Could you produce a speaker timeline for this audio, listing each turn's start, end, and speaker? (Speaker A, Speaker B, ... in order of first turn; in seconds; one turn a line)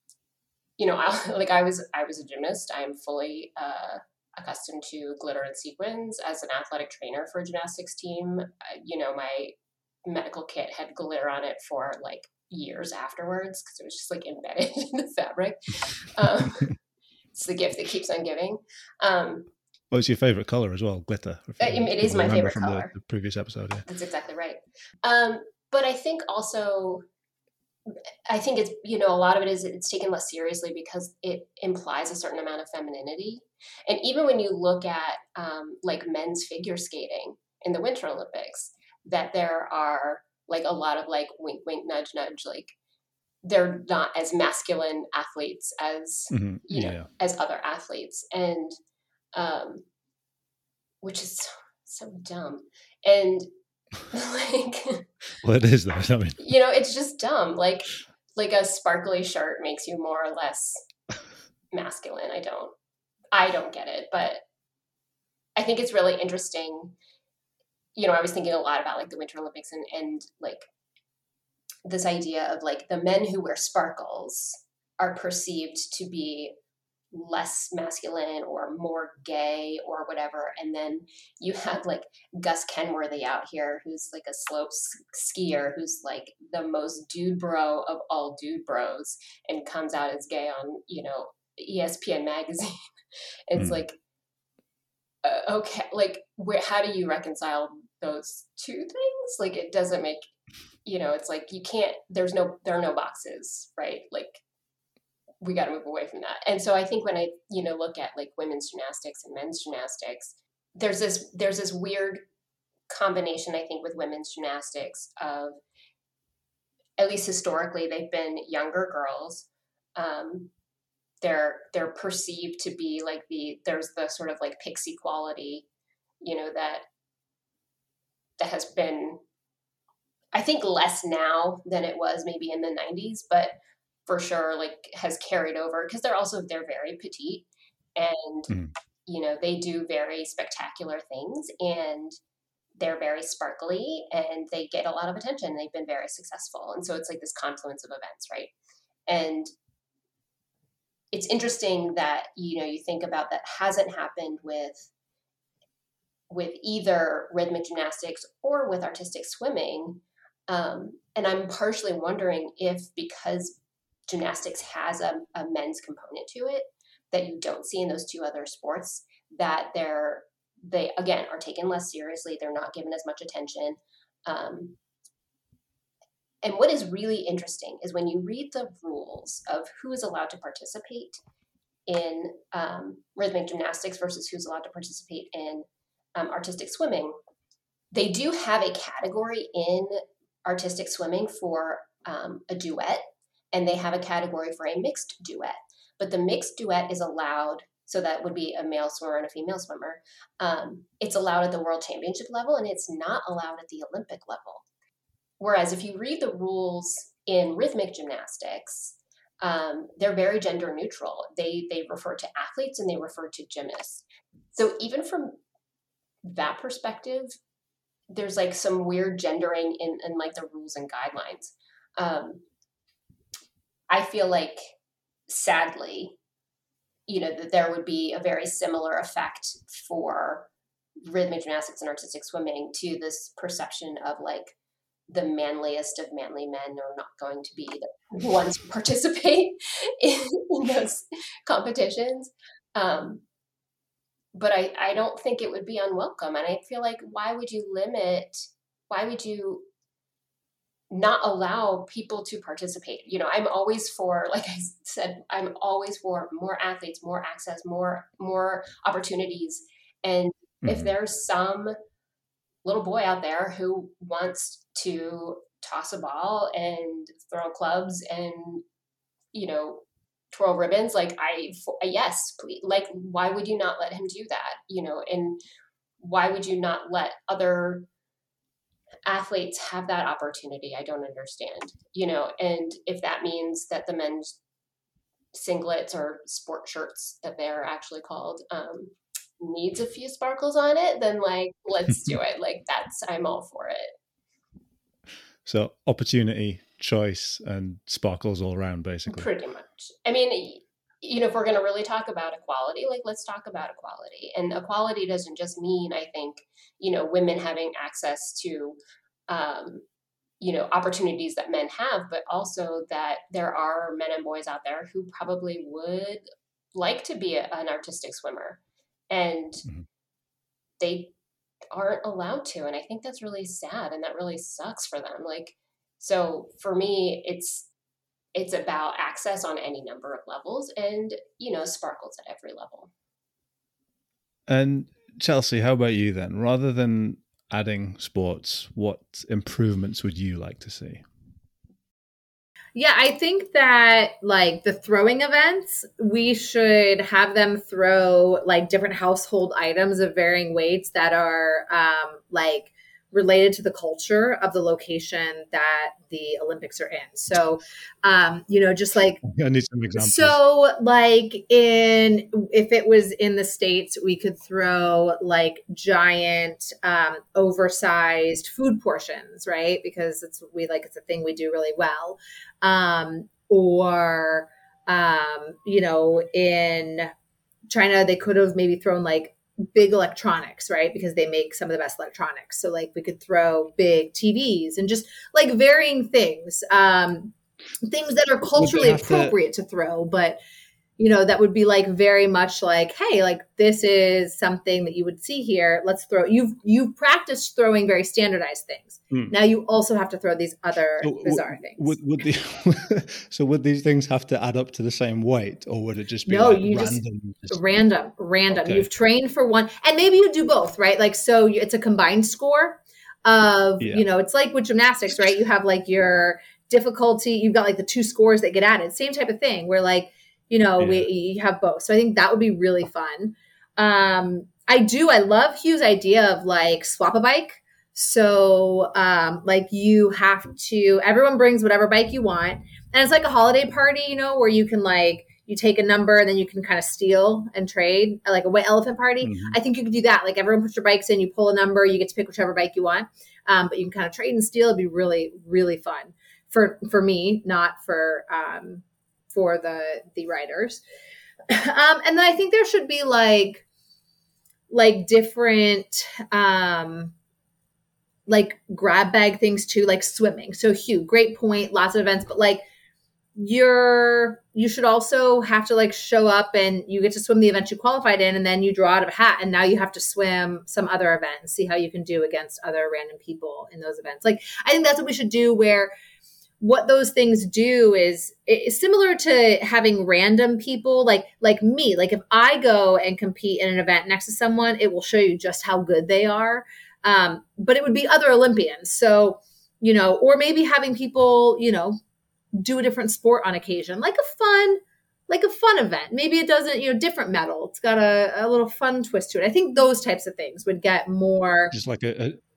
Speaker A: 0.8-16.7
Speaker A: 17.4-19.5
Speaker B: 19.9-23.9
Speaker A: 21.6-22.9
Speaker A: 23.9-27.1
Speaker A: 28.3-42.7
Speaker A: 43.4-48.8
Speaker B: 46.3-47.1
Speaker A: 49.3-49.8
Speaker A: 51.0-53.5
Speaker A: 54.1-55.0
Speaker B: 55.4-56.4
Speaker A: 56.4-60.8
Speaker A: 61.7-62.7
Speaker A: 63.3-64.4
Speaker A: 65.6-66.9
Speaker A: 68.0-70.7
Speaker A: 71.8-76.5
Speaker A: 77.1-92.8
Speaker A: 93.5-94.0
Speaker B: 93.6-93.8
Speaker A: 95.2-100.2
Speaker A: 100.8-104.4
Speaker A: 105.4-112.2
Speaker A: 112.9-115.6
Speaker A: 117.0-120.5
Speaker A: 121.2-125.7
Speaker A: 126.2-126.8
Speaker A: 128.4-129.2
Speaker A: 130.3-133.5
Speaker A: 134.1-138.5
Speaker B: 138.5-138.7
Speaker A: 139.1-142.2
Speaker A: 142.8-148.5
Speaker A: 149.1-149.5
Speaker A: 151.1-154.9
Speaker A: 156.3-174.8
Speaker A: 176.4-181.2
Speaker A: 181.9-187.2
Speaker A: 187.9-204.7
Speaker A: 205.4-215.4
Speaker A: 216.2-217.3
Speaker A: 218.1-222.4
Speaker A: 223.9-224.7
Speaker A: 225.3-226.2
Speaker A: 227.1-230.5
Speaker A: 231.1-234.6
Speaker A: 235.1-243.2
Speaker A: 244.3-249.7
Speaker A: 250.9-261.7
Speaker B: 260.6-260.9
Speaker A: 262.6-268.6
Speaker A: 269.3-275.4
Speaker A: 276.0-277.9
Speaker A: 279.1-284.3
Speaker A: 285.3-293.9
Speaker B: 295.4-299.3
Speaker A: 299.1-308.8
Speaker A: 309.3-309.8
Speaker A: 310.4-316.2
Speaker A: 316.7-319.6
Speaker A: 320.8-321.1
Speaker A: 321.7-327.7
Speaker A: 328.4-332.9
Speaker B: 334.5-341.0
Speaker C: 342.8-359.2
Speaker B: 359.2-360.4
Speaker C: 360.0-377.1
Speaker C: 377.7-390.4
Speaker B: 388.6-389.4
Speaker C: 391.0-402.0
Speaker B: 401.0-407.7
Speaker C: 406.3-450.8
Speaker B: 408.5-408.9
Speaker B: 420.8-421.1
Speaker B: 439.2-439.6
Speaker C: 451.5-453.6
Speaker C: 454.7-457.1
Speaker C: 458.3-462.6
Speaker C: 463.4-475.9
Speaker C: 476.6-492.0
Speaker C: 492.6-501.8
Speaker B: 501.7-502.4